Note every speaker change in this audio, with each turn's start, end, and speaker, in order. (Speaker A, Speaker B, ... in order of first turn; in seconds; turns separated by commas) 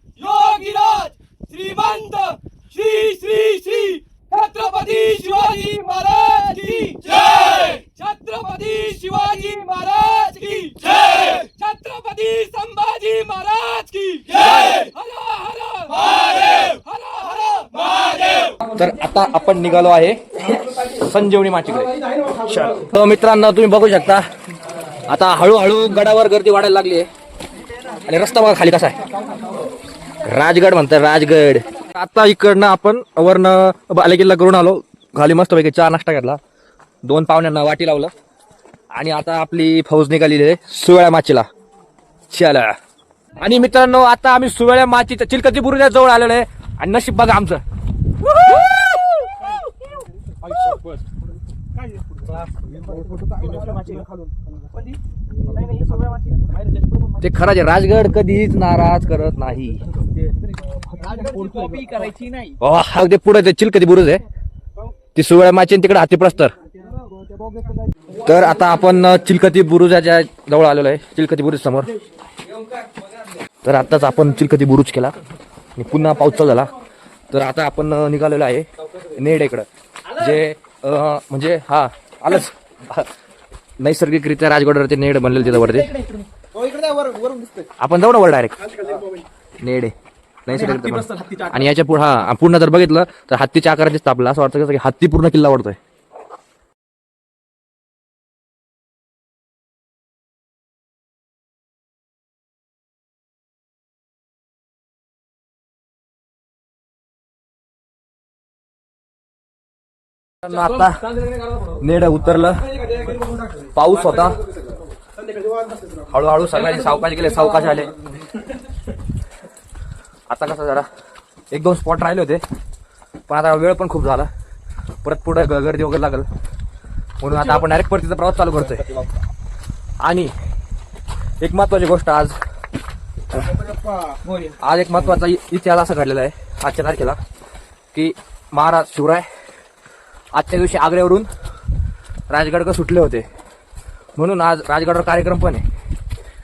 Speaker A: 0.4-6.2, Speaker B: 2.9-3.9, Speaker B: 4.7-7.5, Speaker A: 6.9-18.5, Speaker B: 8.1-10.7, Speaker B: 11.8-14.8, Speaker B: 18.5-24.2, Speaker B: 25.1-27.1, Speaker B: 28.0-29.0, Speaker B: 30.2-36.4, Speaker B: 37.0-38.1, Speaker B: 38.9-41.5, Speaker B: 42.3-42.7, Speaker B: 43.4-47.6, Speaker B: 48.3-49.0, Speaker C: 53.0-54.1, Speaker C: 54.6-57.1, Speaker B: 57.2-59.8, Speaker C: 60.9-62.6, Speaker B: 62.6-64.2, Speaker B: 65.1-66.5, Speaker B: 68.2-71.9, Speaker B: 73.6-75.2, Speaker B: 75.8-76.7, Speaker B: 77.3-83.1, Speaker B: 83.8-85.9, Speaker C: 85.5-86.2, Speaker B: 87.8-88.5, Speaker B: 89.6-89.9, Speaker B: 90.5-95.8, Speaker C: 90.5-91.6, Speaker B: 110.4-112.7, Speaker B: 113.7-114.4, Speaker B: 116.1-117.9, Speaker B: 120.3-120.9, Speaker B: 121.5-122.4, Speaker B: 123.3-124.3, Speaker B: 125.0-126.3, Speaker B: 127.2-129.0, Speaker B: 130.0-130.3, Speaker B: 131.4-132.3, Speaker B: 134.6-137.2, Speaker B: 137.9-139.3, Speaker B: 140.3-141.3, Speaker B: 142.3-143.2, Speaker B: 144.2-145.6